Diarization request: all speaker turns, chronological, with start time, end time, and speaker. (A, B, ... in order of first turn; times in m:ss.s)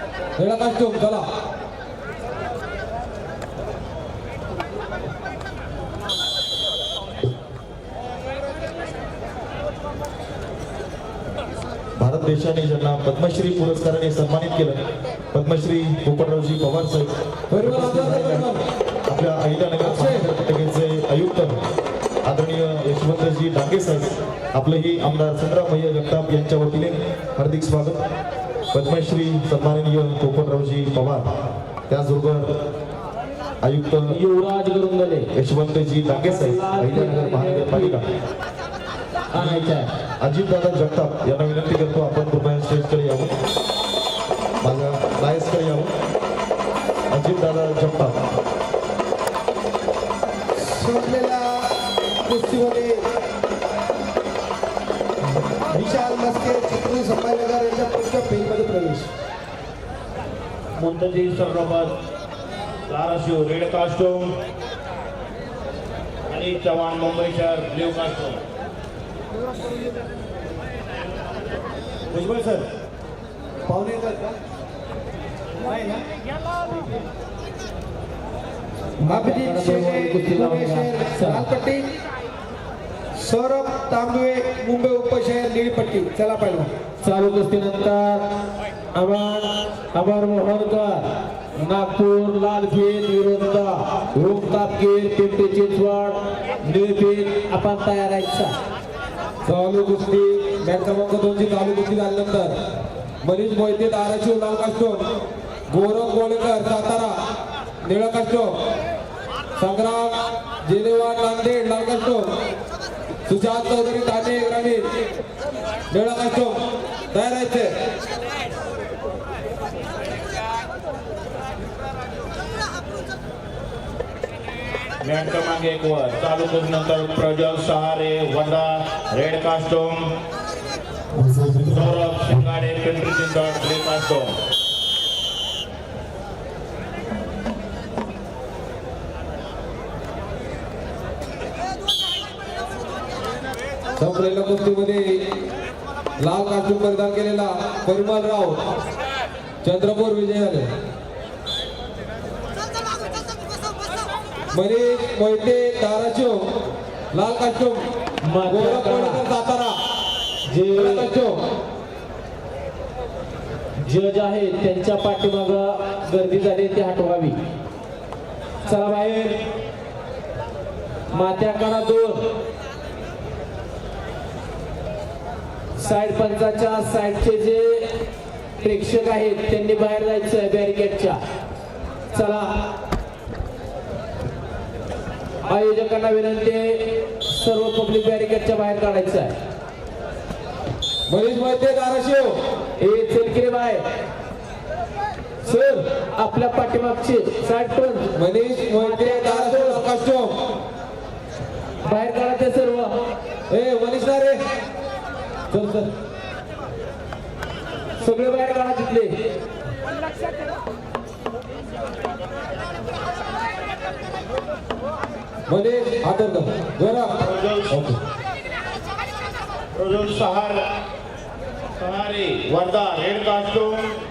0:00.4-0:01.2 A
0:12.0-0:14.8 B
0:15.3-0:18.5 B
0:17.5-0:18.6 A
0:19.1-0:21.6 B
0:19.8-0:20.3 A
0:22.2-0:28.0 B
0:28.7-0:31.3 B
0:31.9-0:32.5 B
0:33.6-0:34.2 B
0:34.1-0:35.3 C
0:35.3-0:38.0 B
0:36.1-0:38.0 C
0:39.3-0:39.9 C
0:39.4-0:43.3 B
0:44.6-0:45.9 B
0:47.1-0:48.2 B
0:50.6-0:51.7 D
0:52.2-0:53.0 D
0:55.7-0:59.1 D
1:00.8-1:01.9 E
1:02.9-1:04.3 E
1:06.3-1:08.4 E
1:12.1-1:12.6 E
1:13.7-1:14.3 D
1:15.7-1:16.0 D
1:19.0-1:21.5 C
1:19.0-1:21.8 D
1:23.2-1:26.7 D
1:27.0-1:28.2 C
1:28.9-1:31.0 C
1:31.6-1:38.5 C
1:39.4-1:42.5 A
1:43.2-1:45.0 A
1:45.7-1:47.1 A
1:47.8-1:48.5 A
1:49.6-1:52.3 A
1:53.2-1:54.8 A
1:55.9-1:56.6 A
1:57.1-1:57.7 A
2:05.0-2:10.0 E
2:11.1-2:12.5 B
2:11.7-2:14.3 E
2:24.0-2:25.2 A
2:26.2-2:28.6 A
2:29.6-2:30.7 A
2:34.5-2:36.4 A
2:37.1-2:37.8 A
2:38.2-2:39.2 C
2:38.4-2:39.7 A
2:40.5-2:41.1 C
2:40.7-2:41.4 A
2:43.8-2:47.4 C
2:48.6-2:49.4 C
2:51.1-2:52.2 C
2:55.7-2:57.9 C
2:58.6-3:01.2 C
3:02.1-3:02.6 C
3:05.4-3:09.3 C
3:11.1-3:12.4 A
3:12.8-3:13.8 C
3:15.4-3:18.1 C
3:18.1-3:20.3 A
3:18.7-3:19.8 C
3:21.8-3:22.9 C
3:23.5-3:24.4 A
3:25.5-3:25.9 A
3:28.0-3:29.1 C
3:35.5-3:37.2 A
3:37.2-3:37.8 E
3:37.7-3:38.0 A
3:39.7-3:40.6 E
3:41.8-3:43.9 E